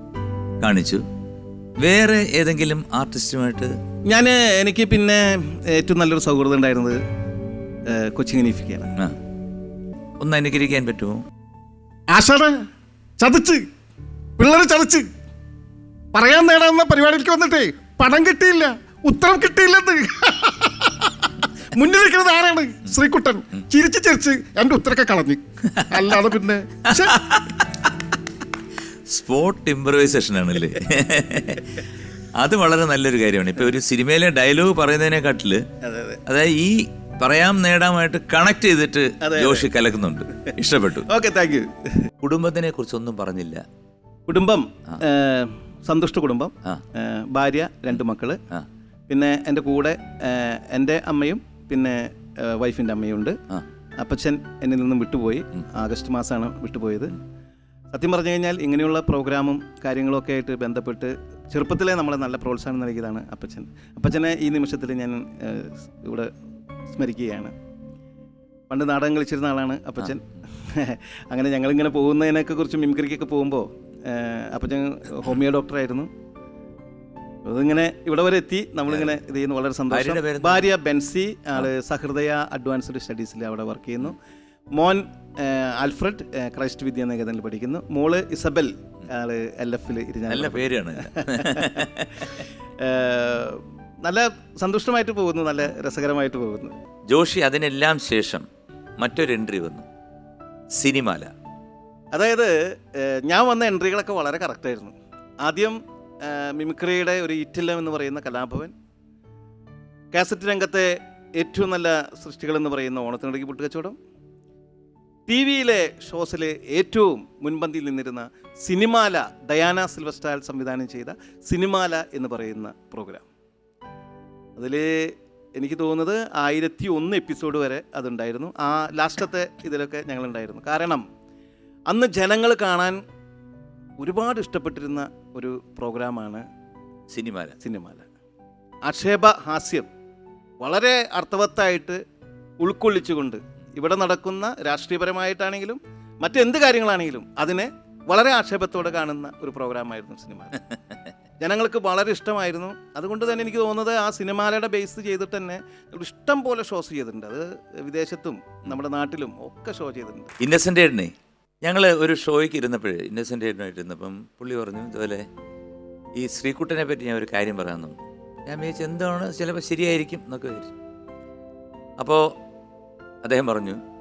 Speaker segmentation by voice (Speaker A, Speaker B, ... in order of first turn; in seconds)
Speaker A: 0.6-1.0, 1.8-3.7, 10.2-11.2, 25.8-26.1, 26.9-27.9, 29.1-31.8, 32.4-35.6, 36.3-41.1, 42.2-43.6, 79.9-80.7, 90.3-92.4, 97.1-98.5, 99.0-99.8, 100.8-101.3, 137.1-137.6, 160.4-165.2, 166.2-170.7, 172.0-172.2, 173.2-173.8
Speaker B: 4.1-7.0, 7.9-8.9, 12.1-12.6, 13.2-13.6, 14.4-15.1, 16.1-27.2, 35.8-36.2, 39.2-39.7, 41.1-42.1, 44.3-48.4, 49.1-53.4, 54.0-57.1, 57.9-66.3, 66.9-67.5, 68.7-76.1, 77.4-84.2, 84.7-91.8, 92.8-96.7, 102.1-108.7, 110.1-114.0, 115.3-123.2, 124.6-131.0, 131.9-133.0, 134.0-136.4, 137.6-138.1, 138.8-139.9, 140.6-142.0, 142.6-150.5, 151.4-160.3